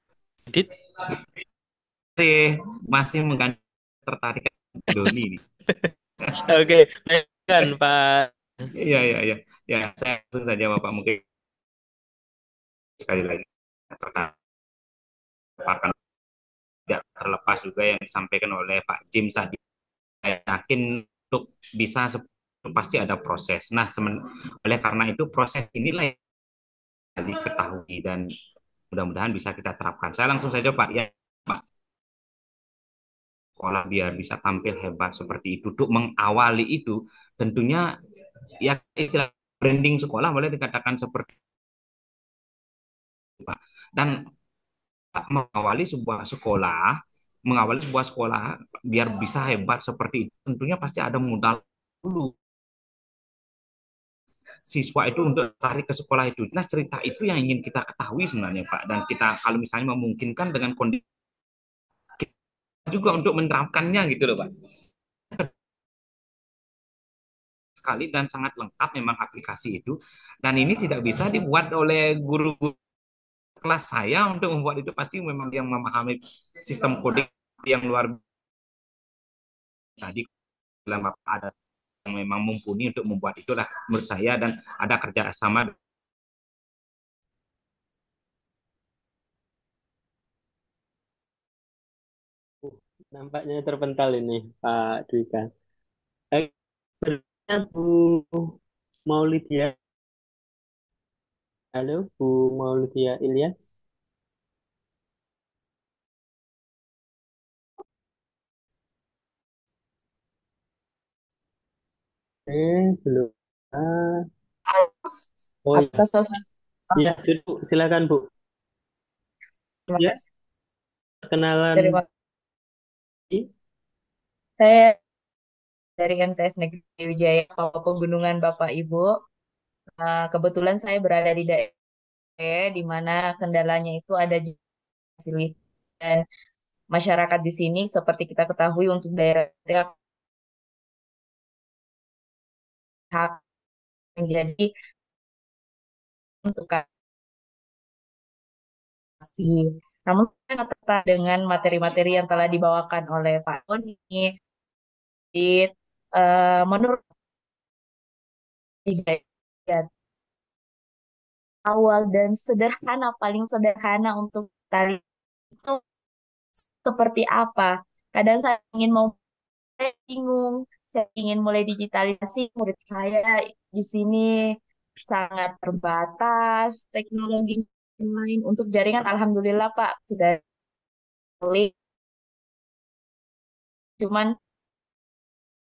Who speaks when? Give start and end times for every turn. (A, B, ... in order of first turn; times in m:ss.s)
0:02.2-0:05.4 A
0:06.4-0:08.3 B
0:08.7-0:11.2 A
0:13.0-0:14.3 A
0:15.6-0:15.9 A
0:16.9-0:19.6 A
0:20.2-0:26.1 A
0:27.2-0:28.2 A
0:28.9-0:31.6 A
0:33.6-0:37.8 A
0:38.6-0:41.3 A
0:43.4-0:44.3 A
0:45.1-0:46.9 A
0:47.5-0:52.3 A
0:54.7-1:01.0 A
1:02.9-1:04.5 A
1:07.8-1:12.7 A
1:13.6-1:18.2 A
1:20.0-1:20.2 A
1:20.8-1:21.5 A
1:22.0-1:25.7 A
1:32.6-1:35.5 B
1:37.0-1:38.5 B
1:39.1-1:39.7 B
1:41.8-1:43.7 B
1:52.5-1:54.2 B
1:55.6-1:56.0 B
1:55.7-1:56.4 C
1:57.0-1:58.2 B
1:59.9-2:00.2 C
2:01.2-2:02.0 B
2:01.8-2:02.0 C
2:04.6-2:05.0 C
2:06.0-2:09.1 C
2:10.0-2:11.7 C
2:12.4-2:14.6 C
2:15.2-2:16.2 C
2:16.9-2:19.9 C
2:23.1-2:23.4 C
2:24.2-2:24.7 C
2:26.4-2:26.8 C
2:29.3-2:34.3 C
2:35.4-2:37.0 C
2:38.9-2:39.8 C
2:41.7-2:45.0 C
2:46.8-2:49.1 C
2:49.8-2:54.3 C
2:55.0-3:00.4 C
3:01.4-3:01.7 C
3:04.0-3:04.3 C